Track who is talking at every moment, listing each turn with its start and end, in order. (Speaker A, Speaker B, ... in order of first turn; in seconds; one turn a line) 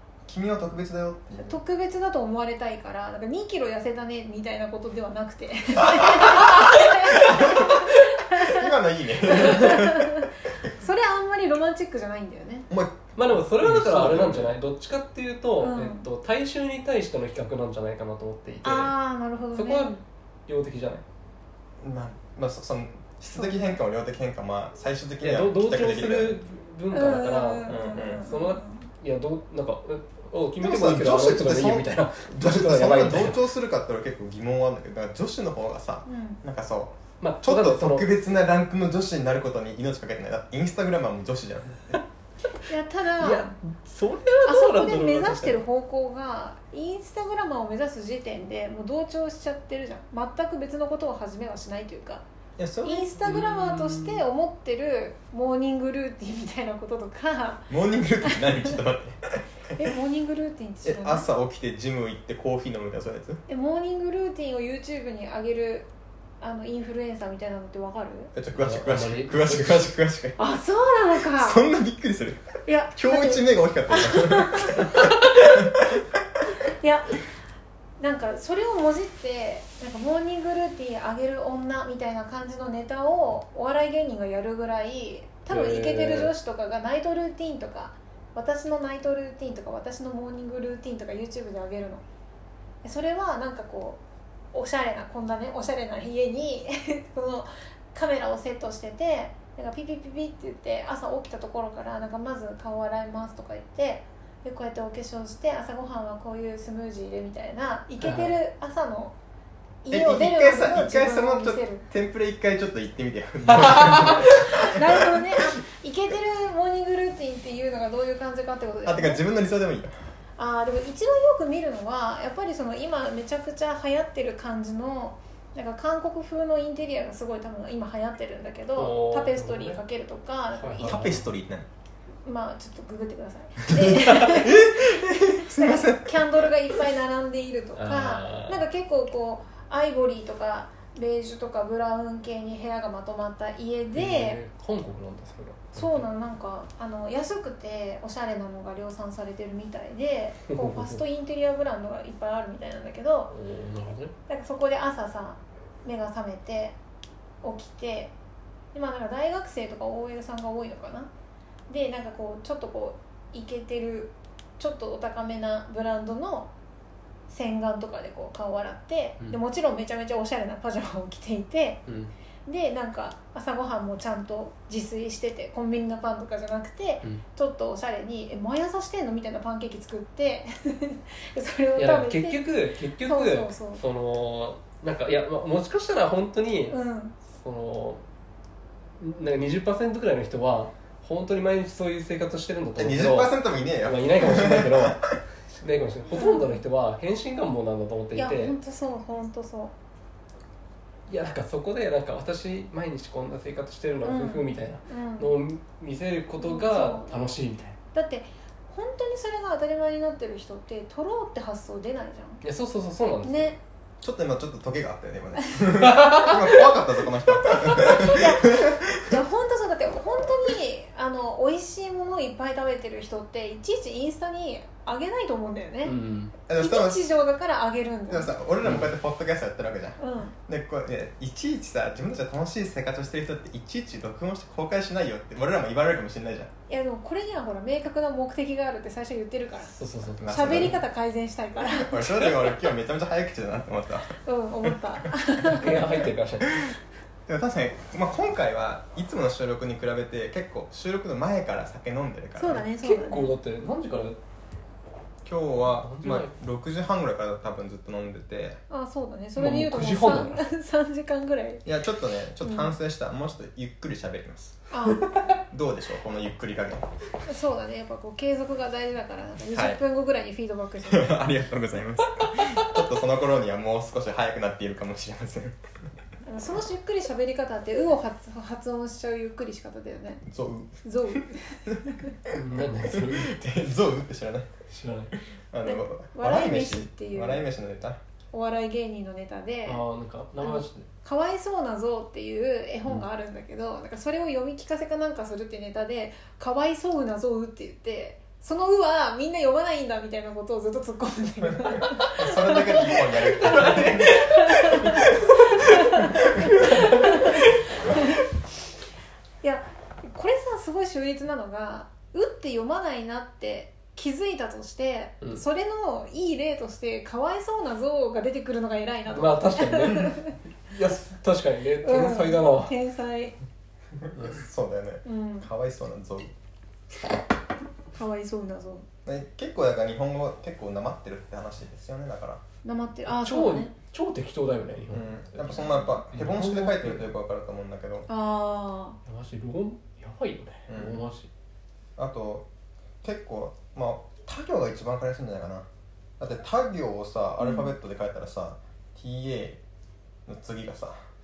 Speaker A: 0.2-1.6
Speaker B: 1.4-8.7
Speaker A: 5.8-10.3
Speaker B: 9.2-12.7
Speaker A: 12.7-14.5
Speaker C: 13.2-18.9
Speaker B: 15.6-16.0
Speaker B: 18.6-20.0
Speaker C: 19.5-21.0
Speaker A: 21.8-26.4
Speaker B: 23.3-23.8
Speaker C: 25.2-33.4
Speaker B: 26.9-28.9
Speaker A: 27.7-28.2
Speaker A: 30.6-42.0
Speaker B: 36.0-36.4
Speaker C: 37.2-38.1
Speaker B: 42.6-43.5
Speaker C: 43.2-45.6
Speaker B: 44.4-52.2
Speaker A: 52.6-53.1
Speaker B: 52.8-57.7
Speaker C: 53.2-54.2
Speaker A: 57.7-59.8
Speaker B: 58.2-58.8
Speaker B: 59.8-61.3
Speaker A: 60.8-63.4
Speaker B: 63.5-65.9
Speaker B: 66.4-68.3
Speaker A: 68.3-70.4
Speaker C: 68.5-69.9
Speaker B: 70.4-71.7
Speaker A: 71.2-76.1
Speaker B: 72.7-75.7
Speaker B: 76.8-77.2
Speaker B: 78.0-92.0
Speaker C: 85.5-86.3
Speaker B: 92.8-94.0
Speaker B: 94.5-109.1
Speaker C: 108.0-108.4
Speaker B: 109.8-111.8
Speaker A: 109.9-115.4
Speaker C: 113.5-114.2
Speaker B: 114.3-119.2
Speaker A: 118.8-119.9
Speaker B: 120.4-131.2
Speaker C: 128.8-129.8
Speaker C: 130.6-131.2
Speaker A: 130.8-131.7
Speaker B: 132.2-144.4
Speaker A: 133.6-136.5
Speaker C: 137.8-138.6
Speaker C: 143.9-146.1
Speaker B: 145.7-153.3
Speaker C: 150.5-151.0
Speaker C: 153.3-154.1
Speaker B: 154.3-156.8
Speaker B: 157.4-158.1
Speaker B: 158.7-161.1
Speaker B: 161.7-166.5
Speaker B: 167.3-171.8
Speaker C: 171.9-172.1
Speaker B: 172.4-182.4
Speaker C: 181.8-188.0
Speaker B: 183.0-183.8
Speaker B: 186.7-187.1
Speaker C: 189.0-195.1
Speaker A: 192.8-195.1
Speaker C: 195.6-198.6
Speaker B: 196.1-196.6
Speaker B: 198.1-199.7
Speaker C: 201.1-207.8
Speaker B: 204.0-205.3
Speaker B: 206.4-207.2
Speaker B: 207.9-212.4
Speaker C: 212.4-213.5
Speaker B: 213.2-213.6
Speaker A: 214.0-219.2
Speaker C: 215.8-216.7
Speaker B: 217.4-225.9
Speaker C: 225.8-226.3
Speaker A: 226.5-227.0
Speaker B: 226.5-228.3
Speaker A: 228.1-236.5
Speaker C: 228.6-228.9
Speaker B: 230.0-230.3
Speaker B: 236.7-239.7
Speaker C: 239.7-240.3
Speaker A: 240.2-240.8
Speaker B: 240.2-242.5
Speaker A: 241.6-244.8
Speaker B: 244.2-246.1
Speaker C: 245.4-246.7
Speaker A: 247.3-252.6
Speaker B: 252.3-253.3
Speaker C: 252.7-254.2
Speaker A: 255.2-258.6
Speaker C: 255.7-256.3
Speaker B: 258.7-261.6
Speaker C: 259.4-260.4
Speaker A: 261.6-264.6
Speaker B: 262.4-262.7
Speaker B: 264.7-265.1
Speaker A: 265.5-266.9
Speaker B: 267.2-271.2
Speaker A: 269.5-269.8
Speaker A: 270.9-275.6
Speaker B: 276.2-280.2
Speaker A: 280.2-280.8
Speaker B: 280.8-282.1
Speaker A: 281.7-284.5
Speaker C: 282.3-283.4
Speaker C: 284.7-285.1
Speaker A: 285.5-288.0
Speaker B: 285.6-287.4
Speaker B: 288.3-289.8
Speaker C: 289.6-290.9
Speaker B: 290.4-308.2
Speaker A: 302.0-306.8
Speaker C: 303.6-304.2
Speaker C: 306.5-307.6
Speaker B: 309.4-320.4
Speaker C: 319.1-322.7
Speaker B: 321.8-323.3
Speaker A: 324.0-326.3
Speaker C: 324.1-324.4
Speaker B: 325.0-325.5
Speaker B: 327.9-328.9
Speaker A: 329.0-332.4
Speaker B: 332.6-333.7
Speaker C: 333.1-337.1
Speaker A: 334.9-338.1
Speaker B: 338.1-339.0
Speaker C: 339.1-341.3
Speaker A: 340.7-341.0
Speaker A: 342.0-342.5
Speaker A: 343.0-345.6
Speaker A: 346.2-349.6
Speaker B: 347.4-347.7
Speaker A: 350.3-351.0